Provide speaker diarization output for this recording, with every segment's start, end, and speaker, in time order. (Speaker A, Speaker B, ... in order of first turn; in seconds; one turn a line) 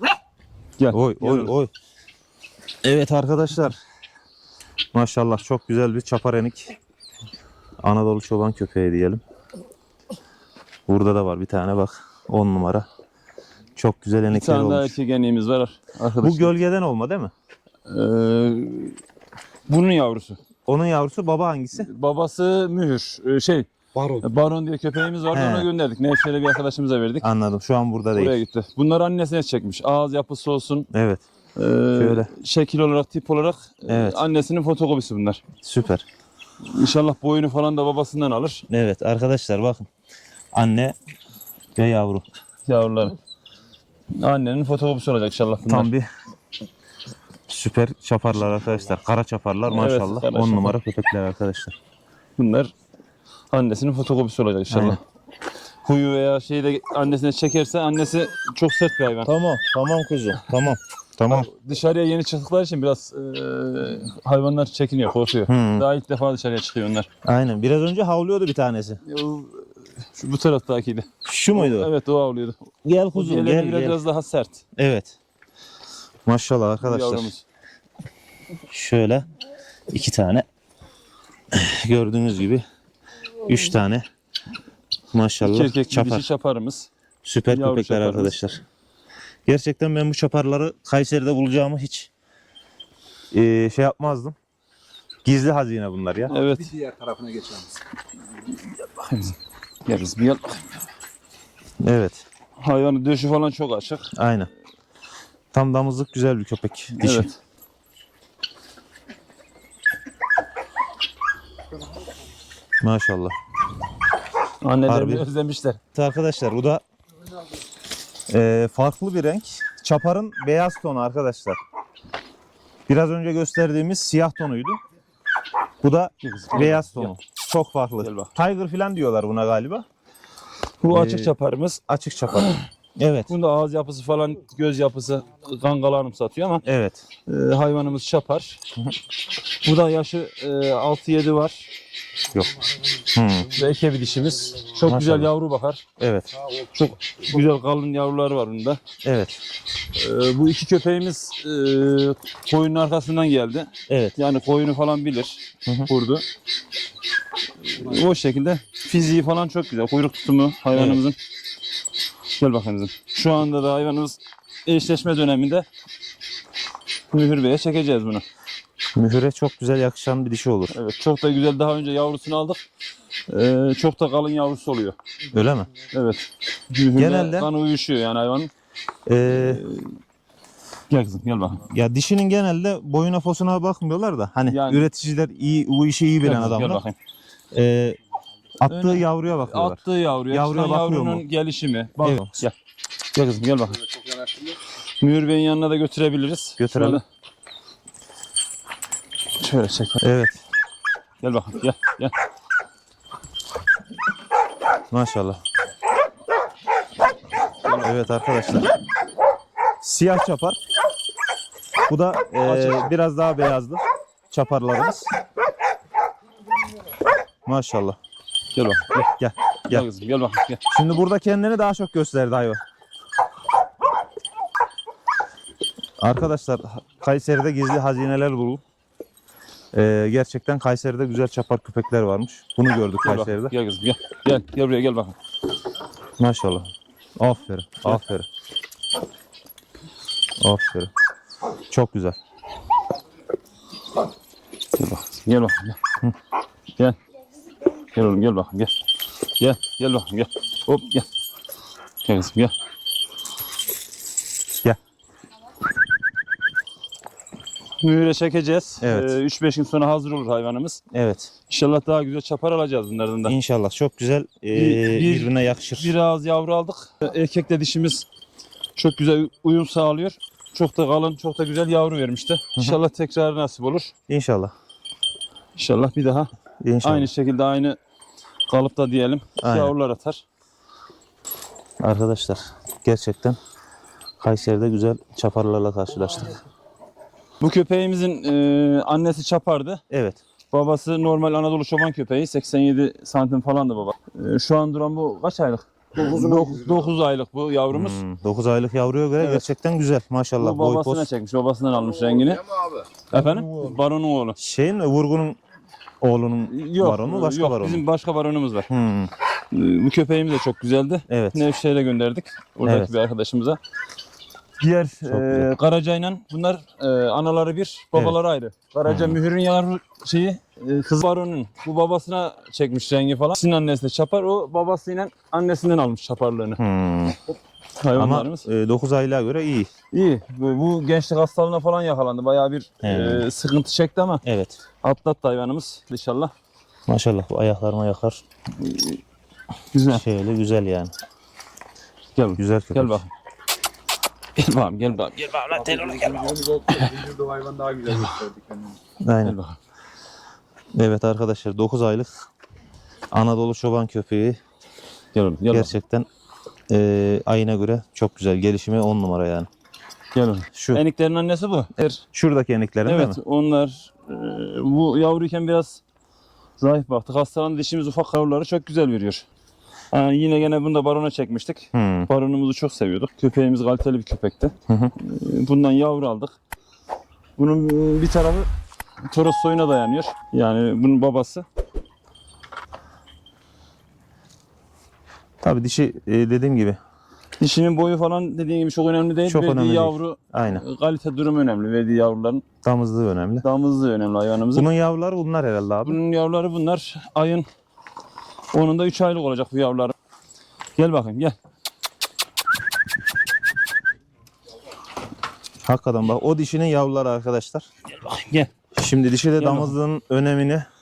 Speaker A: 0.8-1.5
Speaker B: 0.9-1.7
Speaker B: 2.8-3.8
Speaker B: 4.9-6.8
Speaker B: 7.8-9.2
Speaker B: 10.9-12.8
Speaker B: 13.8-14.9
Speaker A: 14.3-16.5
Speaker B: 16.2-17.3
Speaker A: 17.9-19.0
Speaker A: 19.7-20.4
Speaker B: 20.6-21.9
Speaker A: 21.8-23.7
Speaker A: 24.2-27.2
Speaker B: 25.3-25.7
Speaker B: 27.2-28.4
Speaker A: 28.1-30.9
Speaker B: 30.9-31.2
Speaker A: 31.5-35.4
Speaker B: 31.9-32.3
Speaker B: 33.9-34.2
Speaker B: 35.6-36.0
Speaker A: 36.6-38.6
Speaker B: 38.7-39.9
Speaker B: 40.5-41.0
Speaker B: 41.8-42.2
Speaker A: 42.7-43.1
Speaker A: 44.1-45.9
Speaker B: 45.7-46.1
Speaker B: 47.5-51.7
Speaker A: 49.7-50.7
Speaker A: 52.4-52.7
Speaker A: 53.5-55.0
Speaker B: 54.7-55.0
Speaker A: 55.8-59.3
Speaker B: 59.2-61.5
Speaker A: 61.3-67.1
Speaker B: 65.5-65.9
Speaker B: 67.2-69.0
Speaker A: 69.0-72.6
Speaker B: 71.2-71.9
Speaker B: 72.8-74.0
Speaker A: 73.1-74.6
Speaker B: 74.8-75.1
Speaker B: 76.2-77.3
Speaker A: 76.8-77.4
Speaker B: 78.7-79.3
Speaker B: 79.9-80.5
Speaker B: 81.5-82.6
Speaker B: 83.4-84.0
Speaker B: 85.1-86.3
Speaker A: 85.4-86.9
Speaker B: 87.2-88.6
Speaker A: 87.5-88.3
Speaker B: 89.5-92.1
Speaker B: 93.3-94.3
Speaker B: 95.2-96.3
Speaker A: 96.3-96.7
Speaker C: 96.3-97.8
Speaker A: 98.8-100.6
Speaker B: 101.8-102.2
Speaker A: 102.6-104.1
Speaker B: 104.1-104.5
Speaker B: 105.5-107.3
Speaker A: 106.9-107.3
Speaker B: 112.8-113.3
Speaker A: 114.6-115.8
Speaker B: 114.8-115.3
Speaker B: 115.9-116.8
Speaker B: 118.3-121.6
Speaker B: 122.9-124.8
Speaker B: 125.8-129.8
Speaker A: 126.2-127.1
Speaker A: 128.0-128.3
Speaker A: 130.8-131.8
Speaker B: 130.9-131.3
Speaker B: 131.9-133.3
Speaker A: 132.3-132.7
Speaker A: 133.3-136.6
Speaker B: 136.7-137.0
Speaker A: 137.3-138.6
Speaker A: 139.6-141.7
Speaker B: 142.3-143.5
Speaker A: 143.5-145.8
Speaker B: 144.8-145.3
Speaker B: 146.0-146.3
Speaker A: 146.6-148.8
Speaker B: 149.0-149.4
Speaker A: 149.9-156.2
Speaker B: 153.9-154.1
Speaker A: 157.7-161.2
Speaker B: 160.7-161.0
Speaker A: 162.4-165.7
Speaker A: 167.1-168.2
Speaker B: 168.9-170.7
Speaker A: 170.7-172.6
Speaker A: 173.3-175.0
Speaker B: 175.3-175.7
Speaker A: 175.9-178.5
Speaker B: 176.9-177.5
Speaker B: 179.1-179.6
Speaker A: 179.2-180.0
Speaker A: 180.9-181.6
Speaker B: 181.7-186.8
Speaker A: 184.5-184.9
Speaker A: 186.2-186.9
Speaker B: 187.5-188.0
Speaker B: 188.6-191.2
Speaker A: 188.7-192.5
Speaker B: 192.0-192.4
Speaker A: 193.1-193.8
Speaker C: 193.9-194.6
Speaker A: 195.0-197.0
Speaker B: 196.6-197.0
Speaker A: 199.4-200.0
Speaker B: 200.0-200.4
Speaker A: 201.2-202.1
Speaker B: 204.9-205.4
Speaker A: 207.6-207.9
Speaker B: 207.8-208.7
Speaker B: 209.8-210.6
Speaker B: 211.9-215.1
Speaker A: 212.4-212.9
Speaker B: 217.4-218.0
Speaker A: 218.5-219.1
Speaker B: 219.2-219.9
Speaker A: 219.7-220.6
Speaker B: 220.7-222.6
Speaker B: 226.0-228.6
Speaker B: 229.7-233.5
Speaker A: 233.0-235.2
Speaker B: 236.2-238.3
Speaker B: 240.4-240.9
Speaker B: 241.7-242.2
Speaker A: 244.7-245.8
Speaker A: 247.9-248.7
Speaker A: 249.4-251.1
Speaker A: 252.0-252.5
Speaker A: 257.8-260.8
Speaker B: 258.8-259.2
Speaker B: 260.9-261.3
Speaker A: 261.5-263.3
Speaker B: 263.2-265.9
Speaker A: 264.5-268.1
Speaker A: 268.8-273.9
Speaker B: 274.1-274.5
Speaker A: 275.6-276.3
Speaker B: 276.6-277.1
Speaker A: 276.8-277.8
Speaker A: 278.5-280.2
Speaker B: 279.4-279.7
Speaker B: 281.8-283.4
Speaker B: 284.2-286.4
Speaker A: 287.4-289.8
Speaker B: 289.9-290.2
Speaker A: 290.5-298.0
Speaker C: 296.0-296.9
Speaker B: 297.7-301.1
Speaker A: 299.2-299.4
Speaker A: 300.4-302.5
Speaker A: 303.1-304.4
Speaker B: 303.1-303.5
Speaker B: 304.4-305.4
Speaker B: 306.0-307.8
Speaker A: 306.5-308.7
Speaker B: 308.7-309.1
Speaker A: 309.5-313.6
Speaker B: 311.1-311.4
Speaker B: 312.6-312.9
Speaker A: 314.6-326.6
Speaker B: 315.1-315.5
Speaker B: 318.9-319.2
Speaker B: 326.6-327.2
Speaker A: 327.8-328.4
Speaker B: 327.9-329.7
Speaker A: 329.9-334.2
Speaker B: 332.8-333.2
Speaker B: 334.2-334.6
Speaker A: 334.8-336.3
Speaker B: 336.9-338.2
Speaker A: 338.6-339.0
Speaker A: 339.7-340.0
Speaker B: 339.9-340.9
Speaker A: 342.1-343.1
Speaker B: 342.4-343.0
Speaker A: 344.4-346.9
Speaker C: 345.5-348.8
Speaker B: 349.0-349.4
Speaker A: 349.2-349.6
Speaker B: 350.8-352.2
Speaker B: 353.1-354.4
Speaker A: 355.1-355.7
Speaker B: 355.5-356.1
Speaker B: 356.7-359.5
Speaker A: 360.1-362.0
Speaker B: 360.5-360.8
Speaker B: 362.1-363.2
Speaker A: 362.9-365.8
Speaker A: 366.6-369.2
Speaker A: 369.9-376.3
Speaker B: 371.7-372.1
Speaker B: 374.7-374.9
Speaker A: 377.4-378.5
Speaker A: 379.1-381.4
Speaker B: 385.4-386.8
Speaker A: 387.4-392.4
Speaker B: 389.2-390.6
Speaker B: 392.6-393.4
Speaker A: 393.4-394.7
Speaker B: 394.5-396.0
Speaker A: 395.8-397.5
Speaker A: 398.5-399.9
Speaker A: 400.8-401.4
Speaker B: 405.6-407.6
Speaker A: 407.9-408.5
Speaker B: 408.8-410.6
Speaker A: 409.4-409.7